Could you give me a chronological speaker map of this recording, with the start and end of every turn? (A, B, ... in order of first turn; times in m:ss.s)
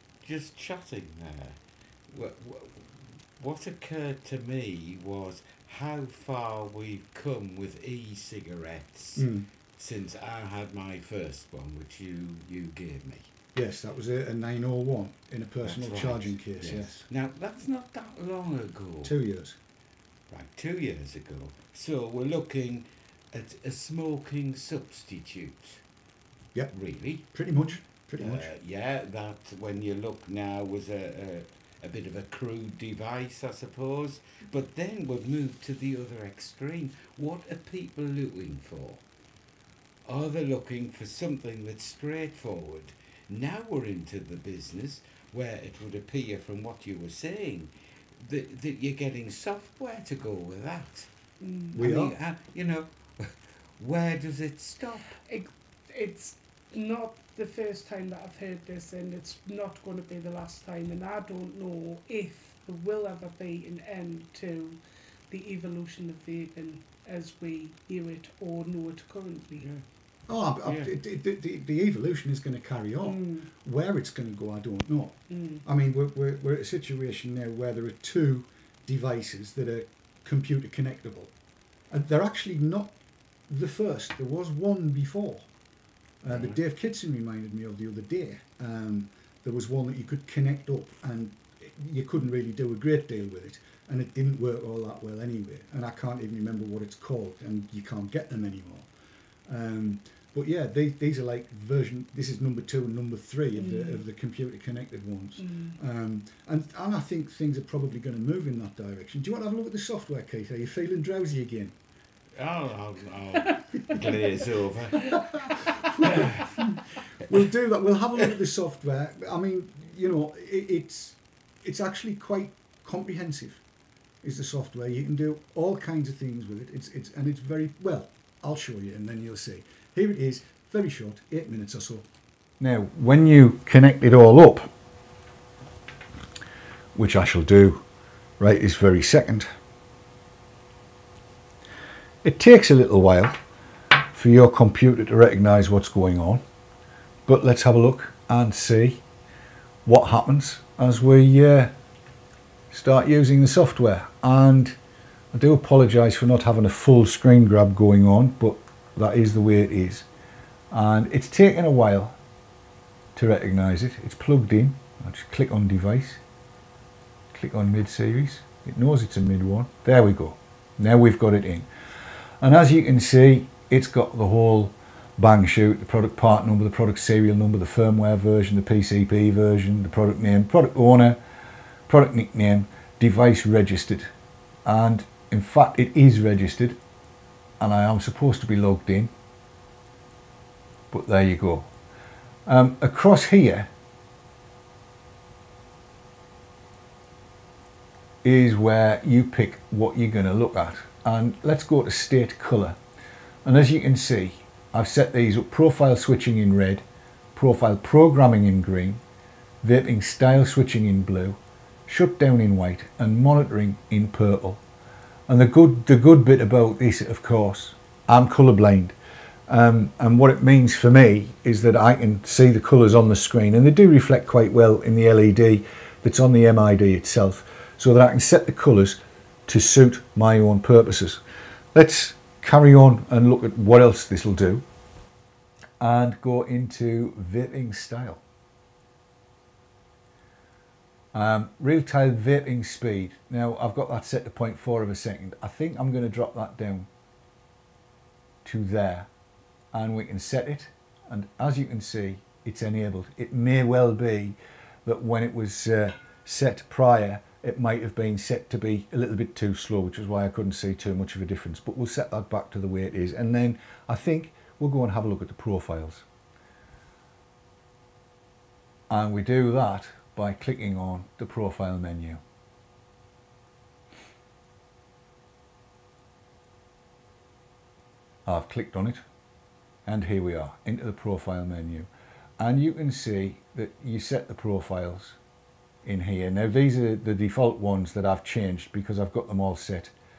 0:00.2-0:13.3 A
0:09.2-0:09.5 B
0:13.6-0:17.0 B
0:15.6-0:19.2 A
0:19.0-0:19.6 B
0:20.3-0:25.8 A
0:26.7-0:27.3 A
0:27.3-0:28.5 B
0:28.2-0:39.0 A
0:40.1-0:51.1 A
0:51.4-0:51.8 C
0:51.7-0:55.2 A
0:51.7-0:52.2 B
0:55.3-1:09.7 C
1:10.3-1:21.3 B
1:10.6-1:10.9 A
1:13.0-1:13.5 C
1:15.3-1:15.6 C
1:21.9-1:23.0 B
1:23.5-1:25.5 B
1:26.2-1:38.9 B
1:26.3-1:26.6 A
1:39.5-1:51.7 B
1:43.6-1:44.0 C
1:45.4-1:45.8 C
1:52.4-1:56.5 A
1:55.0-2:03.6 B
2:04.2-2:12.1 B
2:12.6-2:14.7 B
2:17.0-2:17.8 B
2:18.4-2:19.5 B
2:22.2-2:23.4 B
2:24.1-2:26.4 B
2:27.3-2:29.0 B
2:29.8-2:31.7 B
2:32.7-2:34.8 B
2:35.3-2:40.1 B
2:40.7-2:42.2 B
2:43.1-2:46.2 B
2:47.3-2:51.7 B
2:52.4-3:01.2 B
3:01.9-3:04.1 B
3:04.6-3:06.8 B
3:07.6-3:09.1 B
3:10.9-3:11.7 B
3:12.4-3:13.7 B
3:18.2-3:22.8 B
3:23.4-3:26.8 B
3:27.4-3:29.0 B
3:29.6-3:34.6 B
3:35.3-3:39.0 B
3:39.5-3:51.2 B
3:51.7-3:54.6 B
3:55.8-3:58.2 B
4:01.1-4:06.9 B
4:08.4-4:09.1 B
4:09.7-4:26.0 B
4:28.9-4:32.2 B
4:38.3-4:39.0 B
4:39.8-4:45.2 B
4:45.8-4:49.9 B